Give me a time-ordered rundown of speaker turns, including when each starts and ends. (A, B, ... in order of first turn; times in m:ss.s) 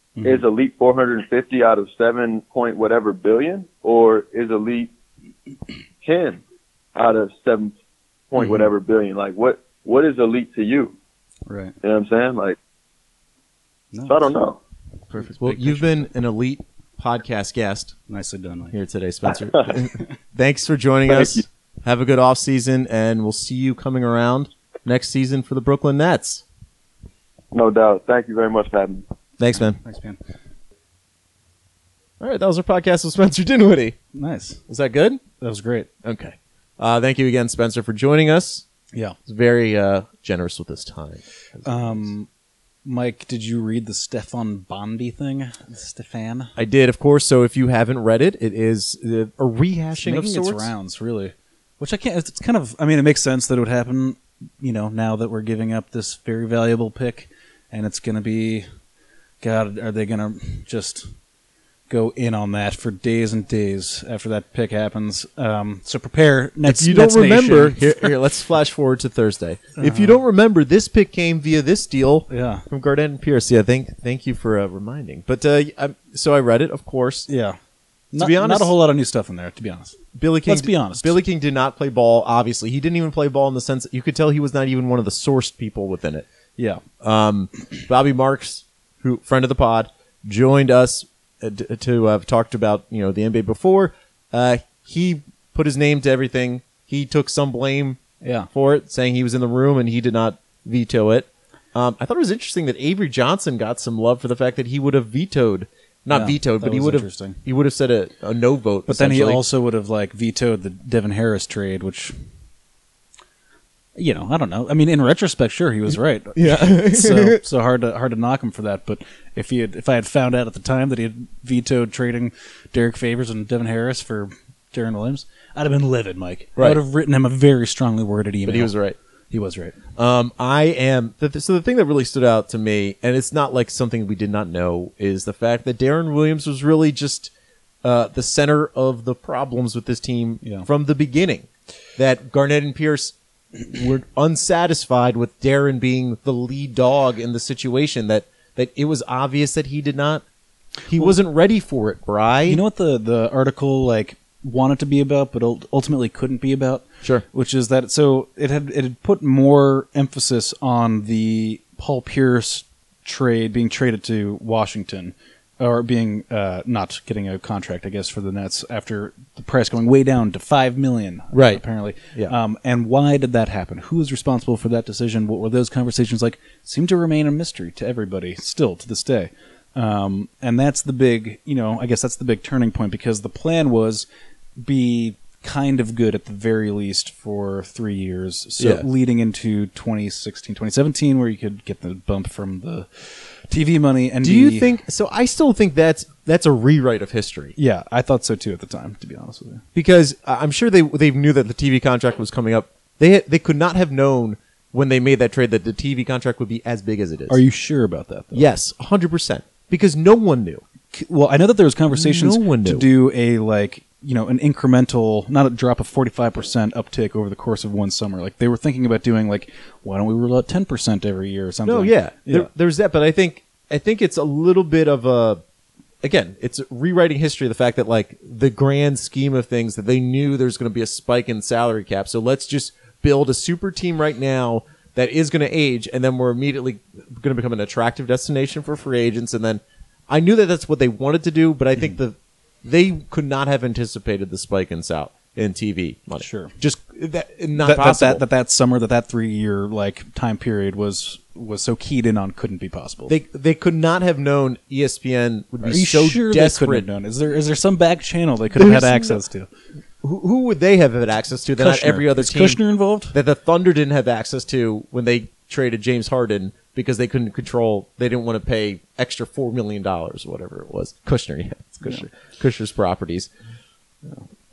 0:00.2-0:00.4 A
0:00.2-0:04.9 B
0:06.0-0:06.4 B
0:06.9-0:07.7 B
0:08.3-0:11.0 B
0:08.4-0:08.7 A
0:11.5-0:11.7 A
0:11.8-0:12.6 B
0:13.9-0:14.3 A
0:14.0-0:14.6 B
0:15.1-0:16.1 A
0:15.1-0:18.0 C
0:18.1-0:18.7 A
0:18.7-0:26.4 C
0:19.3-0:19.7 B
0:21.1-0:21.4 B
0:27.5-0:29.0 B
0:29.4-0:29.8 C
0:29.5-0:30.2 A
0:32.2-0:34.0 C
0:34.1-0:34.6 A
0:34.7-0:35.2 C
0:35.4-0:35.9 A
0:36.0-0:38.6 C
0:39.2-0:42.1 C
0:41.6-0:42.3 A
0:42.8-0:46.5 A
0:46.6-0:50.7 C
0:50.0-0:58.6 A
0:59.4-1:01.1 A
1:01.9-1:08.1 A
1:06.6-1:17.3 C
1:09.8-1:10.2 A
1:12.3-1:12.6 A
1:17.3-1:17.6 A
1:18.1-1:21.1 A
1:18.2-1:18.7 C
1:20.1-1:26.2 C
1:26.6-1:26.8 A
1:27.0-1:38.0 C
1:38.2-1:38.5 A
1:38.5-1:49.4 C
1:46.1-1:47.4 A
1:48.9-1:52.1 A
1:53.9-2:08.7 A
1:56.4-1:57.4 C
2:06.6-2:06.8 C
2:08.4-2:09.0 C
2:09.3-2:09.8 A
2:10.0-2:17.3 C
2:17.8-2:23.1 C
2:23.7-2:30.2 C
2:30.8-2:32.6 C
2:32.5-3:04.0 A
2:51.3-2:51.6 C
3:04.6-3:14.7 A
3:08.6-3:08.8 C
3:14.2-3:17.5 C
3:17.6-3:19.6 A
3:19.7-3:27.4 C
3:27.3-3:28.4 A
3:28.3-3:30.6 C
3:30.9-3:42.5 A
3:31.9-3:32.9 C
3:41.6-3:45.4 C
3:46.0-4:08.2 C
4:06.2-4:06.5 A
4:07.6-4:13.1 A
4:13.1-4:16.9 C
4:15.6-4:19.5 A
4:18.6-4:19.2 C
4:20.0-4:22.6 C
4:21.5-4:23.1 A
4:23.1-4:33.3 C